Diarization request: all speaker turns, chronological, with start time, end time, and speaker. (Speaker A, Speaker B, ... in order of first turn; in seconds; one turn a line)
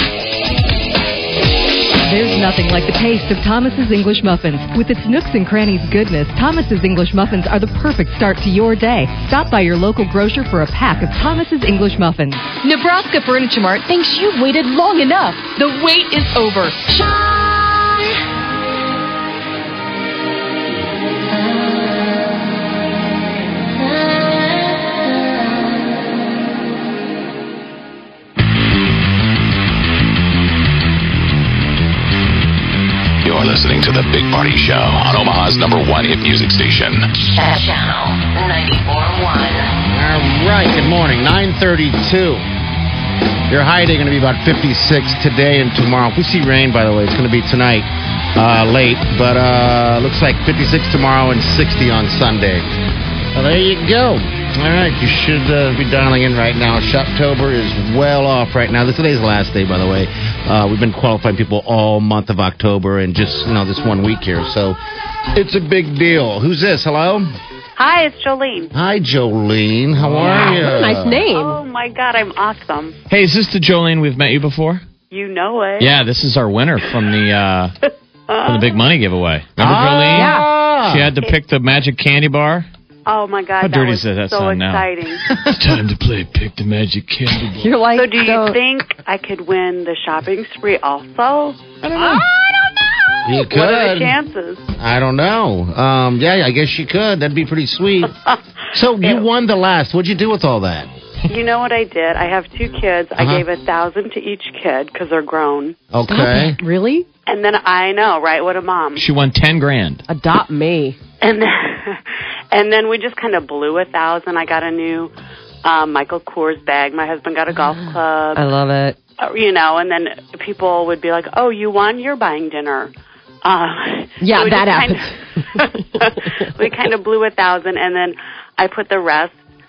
Speaker A: 2.0-17.1
Speaker B: 33.2-37.1
Speaker C: 37.4-39.7
Speaker D: 39.9-42.5
Speaker D: 43.5-52.6
Speaker D: 53.3-64.8
Speaker D: 65.3-67.3
Speaker E: 67.8-68.7
Speaker D: 68.7-71.2
Speaker F: 70.0-70.6
Speaker G: 70.2-71.6
Speaker E: 71.3-72.9
Speaker F: 73.1-74.8
Speaker E: 75.1-75.9
Speaker F: 75.8-77.7
Speaker E: 78.4-78.7
Speaker F: 78.4-82.7
Speaker D: 79.6-81.1
Speaker G: 80.1-80.5
Speaker E: 83.0-85.2
Speaker F: 83.6-87.7
Speaker G: 87.6-88.6
Speaker E: 87.9-91.6
Speaker F: 91.8-92.2
Speaker D: 93.2-94.2
Speaker E: 93.3-94.6
Speaker D: 94.8-98.1
Speaker D: 98.7-100.9
Speaker E: 101.3-105.7
Speaker D: 103.2-103.4
Speaker D: 105.9-106.6
Speaker G: 106.1-107.0
Speaker E: 107.3-109.0
Speaker F: 109.0-110.0
Speaker G: 110.1-111.0
Speaker E: 111.2-115.1
Speaker E: 115.6-118.4
Speaker G: 118.3-119.0
Speaker E: 119.2-122.9
Speaker E: 123.4-125.0
Speaker G: 124.2-126.4
Speaker E: 125.6-129.3